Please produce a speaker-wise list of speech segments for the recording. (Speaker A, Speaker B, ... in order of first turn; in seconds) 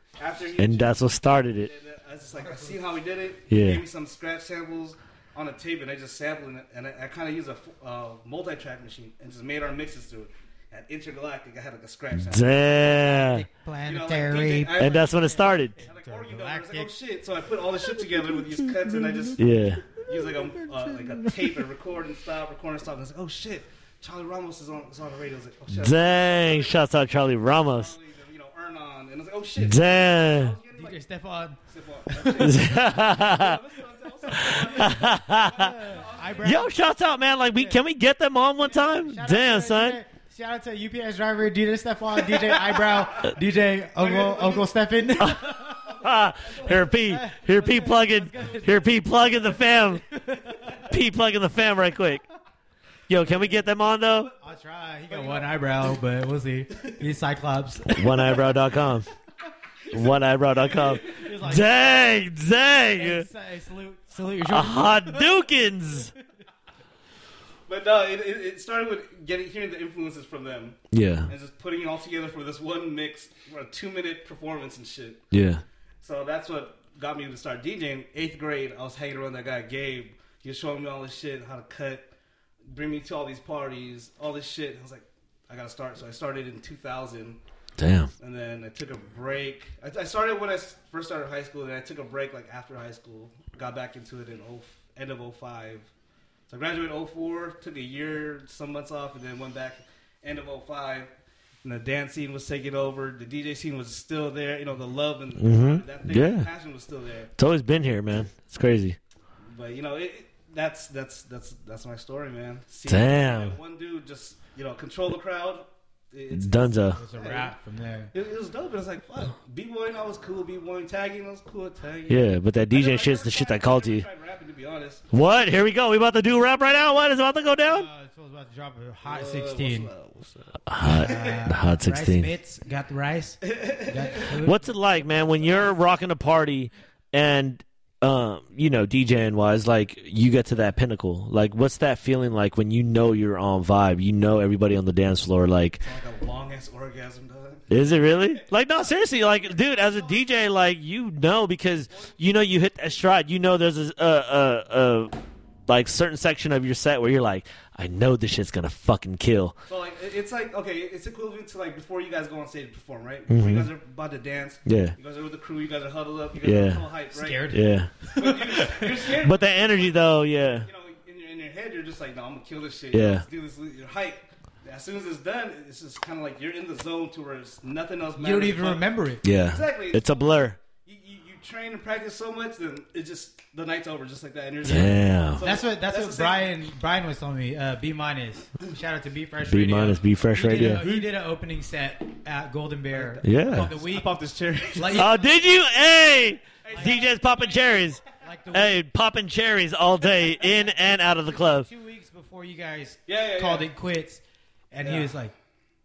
Speaker A: 0.2-13.3, 13.8-26.9, 27.4-31.0, 31.7-36.7, 42.2-43.3, 44.0-44.8, 45.6-47.0, 47.7-49.3, 53.2-54.3, 55.1-55.8, 59.8-61.3, 67.7-75.2, 76.0-82.1, 82.7-87.4, 88.2-95.9, 96.5-101.1, 101.6-107.3, 109.5-117.6, 118.1-125.0, 129.0-131.4, 133.4-134.4, 134.9-136.0, 145.8-150.4, 151.9-152.2, 159.7-167.5, 168.2-186.5, 192.9-195.2, 196.6-198.1, 200.0-200.7, 203.1-203.7, 204.8-205.1
Speaker B: 0.6-1.7, 3.5-3.8, 12.1-13.4, 14.8-15.8, 19.4-19.9, 25.7-27.9, 29.6-30.5, 32.4-33.6, 34.3-35.8, 36.4-40.0, 45.2-50.0, 50.8-52.2, 53.1-54.3, 57.9-59.1, 59.9-63.3, 64.4-66.1, 70.9-71.3, 75.3-75.6, 87.8-88.1, 105.4-106.5, 107.4-109.0, 112.8-113.6, 116.3-117.0, 122.1-124.0, 125.1-127.9, 130.7-132.3, 134.3-145.8, 147.7-155.1, 155.7-159.6, 163.3-163.7, 164.7-164.9, 166.4-166.8, 167.5-170.7, 172.9-173.2, 179.2-180.6, 184.6-185.4, 189.5-190.9, 193.2-193.7, 194.9-198.0, 198.5-201.7
Speaker C: 13.1-14.9, 15.8-16.9, 20.1-21.5, 30.7-31.6, 32.1-32.6, 34.3-36.7, 37.5-37.8, 38.7-45.9, 46.9-49.0, 49.8-50.8, 54.4-58.2, 61.0-62.0, 62.9-65.5, 117.0-118.1, 127.6-129.9, 130.8-134.6, 167.1-168.2, 178.1-179.2, 184.6-194.2, 194.7-195.1, 196.7-197.1, 198.2-198.8, 201.1-205.3